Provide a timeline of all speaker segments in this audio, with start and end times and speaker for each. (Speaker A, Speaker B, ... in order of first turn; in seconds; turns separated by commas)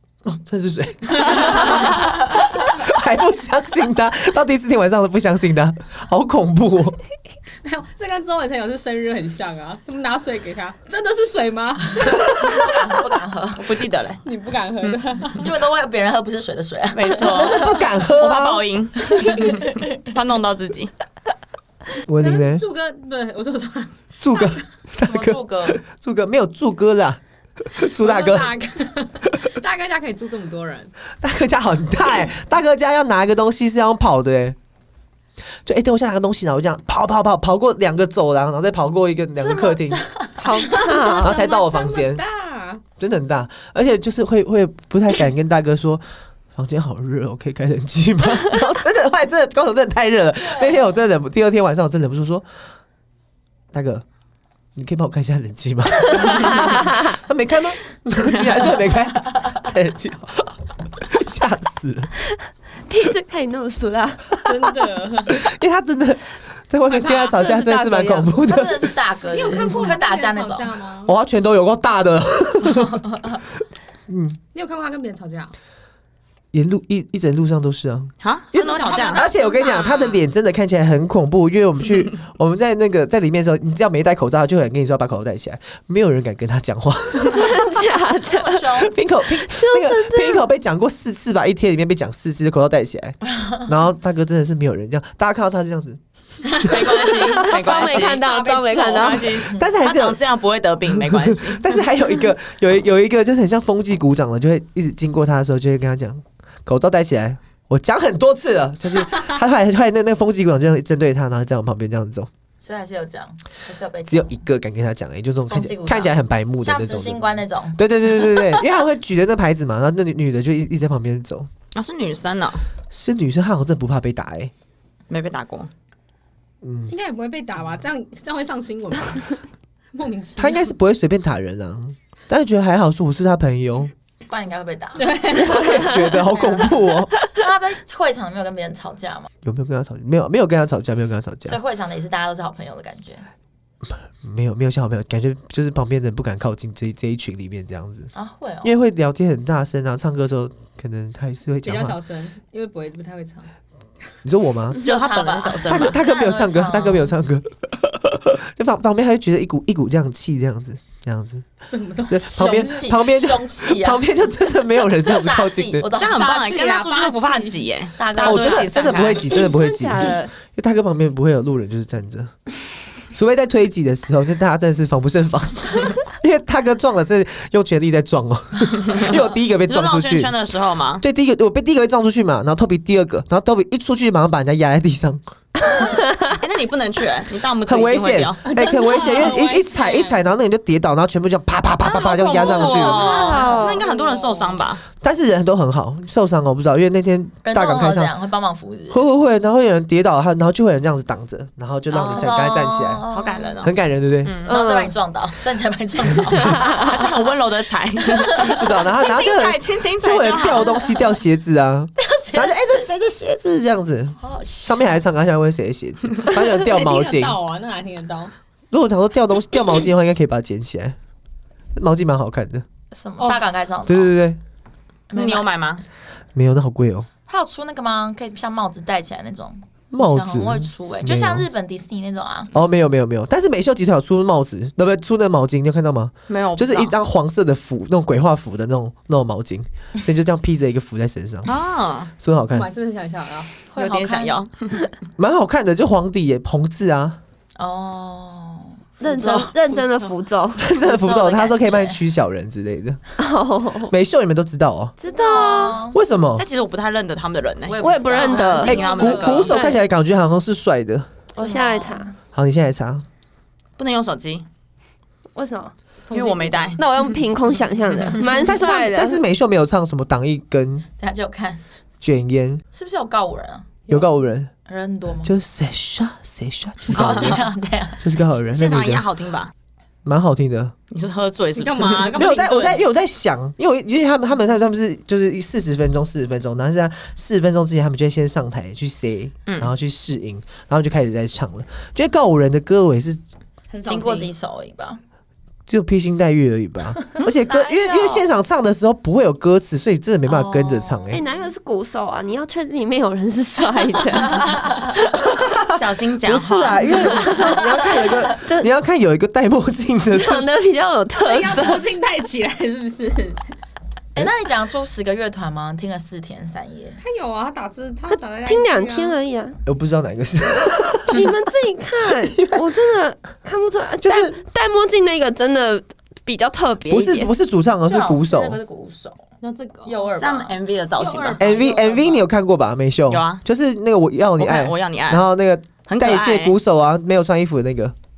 Speaker A: 0.2-7.0, Speaker B: 7.6-12.7, Speaker C: 12.3-13.6, Speaker D: 13.6-14.2, Speaker B: 14.2-15.5, Speaker C: 15.3-17.4, Speaker D: 16.9-20.9, Speaker A: 17.3-18.7, Speaker C: 19.1-19.9, Speaker A: 22.1-22.6, Speaker B: 22.1-24.6, Speaker A: 24.2-27.2, Speaker C: 25.0-25.8, Speaker A: 27.7-28.5, Speaker B: 27.7-30.9, Speaker A: 31.2-34.6, Speaker A: 35.6-40.0, Speaker C: 39.7-40.6, Speaker E: 40.4-41.3, Speaker B: 40.5-42.8, Speaker A: 41.2-42.2, Speaker A: 43.0-52.5, Speaker C: 50.4-50.9, Speaker A: 53.7-54.0, Speaker A: 54.8-62.1, Speaker E: 62.9-64.4, Speaker B: 64.4-65.6, Speaker A: 65.3-68.9, Speaker B: 66.9-67.4, Speaker E: 67.3-68.3, Speaker C: 68.4-70.7, Speaker B: 69.3-71.2, Speaker A: 71.0-73.0, Speaker A: 74.1-74.4, Speaker B: 74.5-75.5, Speaker A: 76.5-87.7, Speaker D: 78.2-79.3, Speaker B: 78.6-80.2, Speaker E: 87.3-88.6, Speaker C: 88.2-88.9, Speaker A: 88.8-96.0, Speaker E: 89.3-90.4, Speaker B: 96.5-96.8, Speaker D: 96.6-101.8, Speaker E: 97.1-99.3, Speaker B: 97.7-99.4, Speaker A: 99.2-100.2, Speaker C: 99.4-99.7, Speaker A: 100.8-112.3, Speaker C: 112.6-114.4, Speaker A: 114.1-121.5, Speaker C: 115.5-118.6, Speaker D: 121.7-122.6, Speaker A: 122.9-124.5, Speaker D: 125.1-125.7, Speaker A: 126.6-126.9, Speaker B: 126.9-130.7, Speaker A: 130.4-133.9, Speaker C: 134.3-139.3, Speaker B: 134.9-135.7, Speaker A: 135.3-137.1, Speaker A: 139.4-141.6, Speaker C: 141.4-143.2, Speaker A: 143.8-148.1, Speaker C: 148.1-148.8, Speaker A: 148.6-152.0, Speaker B: 151.6-153.5, Speaker A: 154.2-154.8, Speaker D: 154.8-156.0, Speaker C: 154.8-157.2, Speaker A: 155.7-161.5, Speaker B: 161.6-162.8, Speaker A: 162.1-165.8, Speaker C: 162.3-166.5, Speaker D: 165.9-169.3, Speaker B: 166.1-167.8, Speaker C: 167.9-169.2, Speaker A: 168.2-172.3, Speaker E: 169.2-170.3, Speaker A: 173.1-180.4, Speaker D: 178.8-181.0, Speaker A: 181.0-185.2, Speaker D: 186.3-188.5, Speaker A: 187.6-193.1, Speaker B: 188.4-190.3, Speaker D: 191.9-194.8, Speaker B: 192.0-192.9, Speaker E: 192.9-193.9, Speaker B: 193.4-194.5, Speaker A: 195.0-198.1, Speaker C: 197.4-199.0, Speaker A: 198.9-203.0, Speaker D: 201.9-202.4, Speaker C: 202.1-203.7, Speaker D: 203.1-204.6, Speaker A: 203.6-204.4, Speaker E: 204.5-204.9, Speaker C: 204.5-207.1, Speaker E: 206.4-206.8, Speaker D: 206.6-210.9, Speaker C: 208.1-208.7, Speaker A: 208.6-217.4, Speaker C: 212.0-212.8, Speaker C: 214.2-215.0, Speaker B: 216.3-218.3, Speaker A: 218.7-220.9, Speaker A: 221.8-222.6, Speaker C: 222.9-224.2, Speaker B: 223.2-223.4, Speaker A: 223.8-224.4, Speaker C: 225.1-225.5, Speaker D: 225.1-225.8, Speaker A: 226.3-227.1, Speaker C: 227.3-232.5, Speaker A: 229.9-231.5, Speaker A: 232.5-241.6, Speaker D: 236.3-237.0, Speaker D: 241.4-242.1, Speaker A: 242.2-242.7, Speaker B: 242.5-243.5, Speaker C: 243.7-244.4, Speaker D: 243.8-244.8, Speaker A: 245.2-247.2, Speaker C: 247.6-252.0, Speaker E: 249.0-250.6, Speaker A: 250.6-253.0, Speaker E: 253.2-253.9, Speaker A: 253.9-254.9, Speaker E: 255.0-255.8, Speaker C: 255.1-256.0, Speaker A: 255.9-256.4, Speaker D: 256.4-259.8, Speaker C: 257.6-259.6, Speaker E: 257.8-258.9, Speaker A: 258.6-261.1, Speaker E: 261.3-262.1, Speaker C: 261.4-262.0, Speaker A: 262.3-263.0, Speaker D: 263.8-264.4, Speaker E: 265.3-265.7, Speaker B: 266.1-266.7, Speaker D: 266.1-266.8, Speaker E: 266.7-269.2, Speaker A: 268.4-270.8, Speaker C: 271.0-271.6, Speaker A: 272.0-272.6, Speaker C: 272.7-273.8, Speaker A: 273.9-274.5, Speaker C: 274.6-275.3, Speaker A: 275.2-277.4, Speaker C: 276.9-278.2, Speaker A: 278.0-279.1, Speaker D: 278.5-279.5, Speaker A: 280.0-280.7, Speaker D: 280.9-282.3, Speaker B: 281.5-282.8, Speaker A: 282.2-293.2, Speaker D: 289.5-289.7, Speaker B: 293.7-294.3, Speaker C: 293.8-295.0, Speaker A: 295.7-301.2, Speaker C: 297.5-298.2, Speaker C: 300.2-301.5, Speaker E: 301.1-304.9, Speaker A: 305.6-310.5, Speaker D: 305.7-307.1, Speaker E: 308.3-308.7, Speaker E: 310.1-311.9, Speaker B: 311.1-313.5, Speaker C: 314.1-317.0, Speaker B: 317.0-319.2, Speaker E: 318.1-319.6, Speaker A: 319.6-321.3, Speaker E: 321.1-327.3, Speaker A: 322.2-322.7, Speaker A: 324.0-324.4, Speaker A: 326.9-328.6, Speaker C: 327.8-329.2, Speaker B: 329.4-330.0, Speaker C: 329.8-331.5, Speaker D: 330.2-331.5, Speaker A: 331.4-337.9, Speaker B: 331.4-332.3, Speaker D: 333.1-333.4, Speaker D: 334.4-335.2, Speaker D: 335.9-336.6